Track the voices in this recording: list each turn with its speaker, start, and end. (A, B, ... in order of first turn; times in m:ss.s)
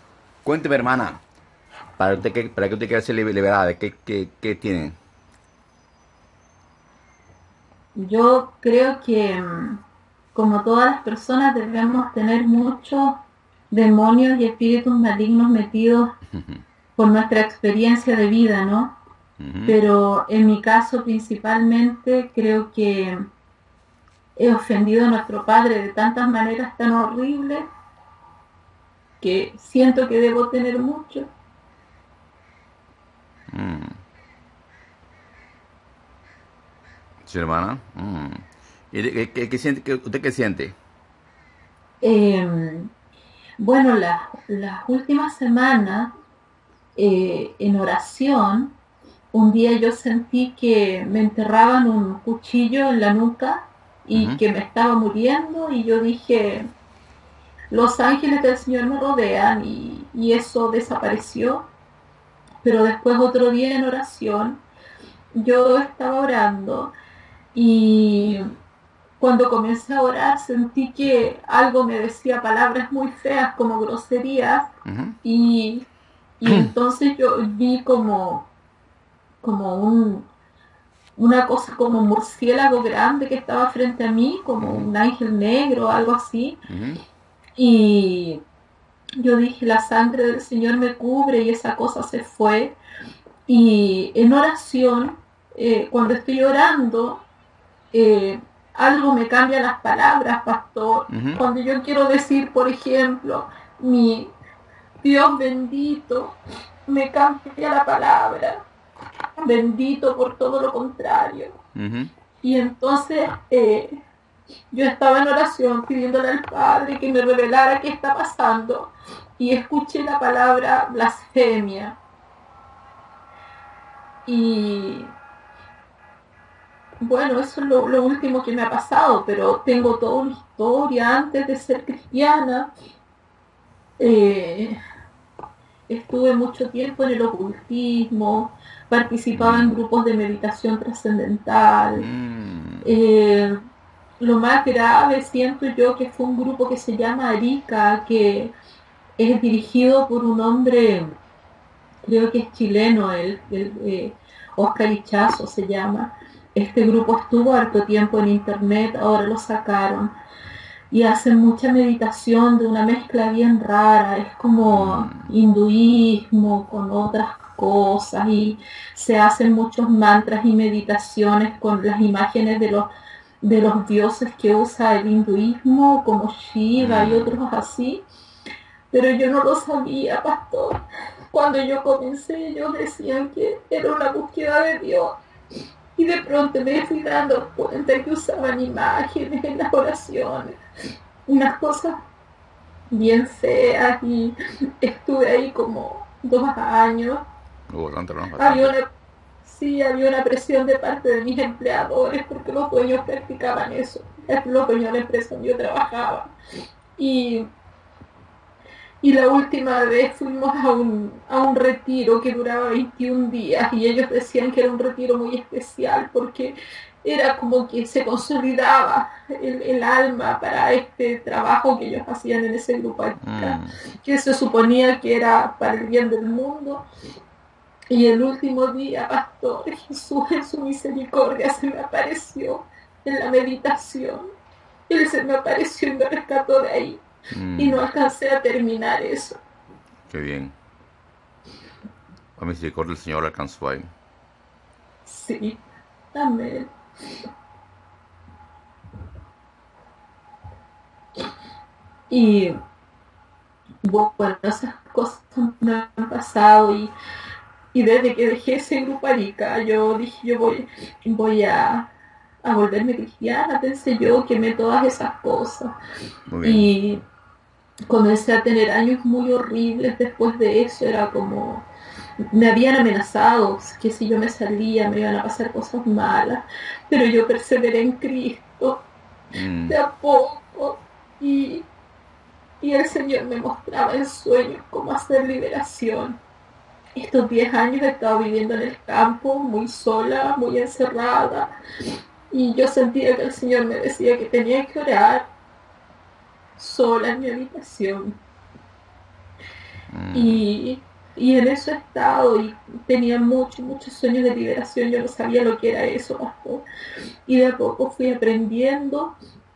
0:00.4-0:01.2 A
0:02.0-0:05.0 A
0:07.9-0:16.2 B
0:16.3-0:16.6 A
0:17.0-0:19.0 B
0:19.4-0:19.8 A
0:19.6-0:23.3 B
0:24.4-0:27.7 B
0:29.2-0:31.3 B
0:33.5-0:34.0 A
0:37.2-0:40.7 A
0:42.0-0:42.9 B
0:43.6-0:46.1 B
0:46.9-0:48.8 B
0:49.3-0:56.7 B
0:54.1-0:54.4 A
0:57.7-1:01.7 B
1:02.6-1:04.6 B
1:05.3-1:06.9 B
1:07.5-1:08.5 B
1:09.2-1:14.7 B
1:14.8-1:15.2 A
1:15.2-1:15.9 B
1:16.4-1:18.5 B
1:16.5-1:16.7 A
1:19.4-1:20.3 B
1:21.2-1:26.6 B
1:24.6-1:24.9 A
1:26.7-1:27.0 A
1:27.6-1:28.4 B
1:29.2-1:32.8 B
1:33.5-1:37.2 B
1:37.9-1:44.3 B
1:41.1-1:41.4 A
1:45.0-1:48.6 B
1:49.4-1:51.6 B
1:51.7-1:52.1 A
1:52.4-1:54.0 B
1:54.7-2:02.0 B
2:04.2-2:05.1 B
2:07.0-2:12.7 B
2:14.0-2:14.8 B
2:15.9-2:22.1 B
2:19.3-2:19.7 A
2:22.0-2:22.9 A
2:22.8-2:23.6 B
2:24.2-2:28.5 B
2:29.2-2:31.2 B
2:32.0-2:40.1 B
2:40.9-2:52.9 B
2:44.7-2:45.3 A
2:53.4-2:58.0 B
2:56.8-2:57.4 A
2:58.9-3:05.2 B
3:06.0-3:10.6 B
3:11.2-3:12.0 B
3:12.9-3:17.2 B
3:17.7-3:18.7 A
3:18.4-3:18.9 B
3:19.4-3:26.3 B
3:27.0-3:27.5 B
3:29.0-3:46.8 B
3:43.2-3:43.8 A
3:47.9-3:54.3 B
3:54.9-3:57.0 B
3:57.3-3:57.8 A
3:57.6-3:59.4 B
4:00.1-4:00.5 A
4:02.4-4:03.9 A
4:05.0-4:05.6 B
4:06.1-4:07.2 B
4:12.1-4:12.6 B
4:13.8-4:16.9 B
4:17.7-4:21.9 B
4:22.4-4:25.7 B
4:26.3-4:26.7 A
4:26.4-4:27.0 B
4:27.9-4:31.7 B
4:32.2-4:38.9 B
4:39.3-4:39.8 A
4:39.7-4:41.7 B
4:42.6-4:46.2 B
4:46.9-4:55.3 B
4:56.6-4:58.2 B
4:59.9-5:00.4 A
5:00.1-5:06.7 B
5:07.2-5:09.2 B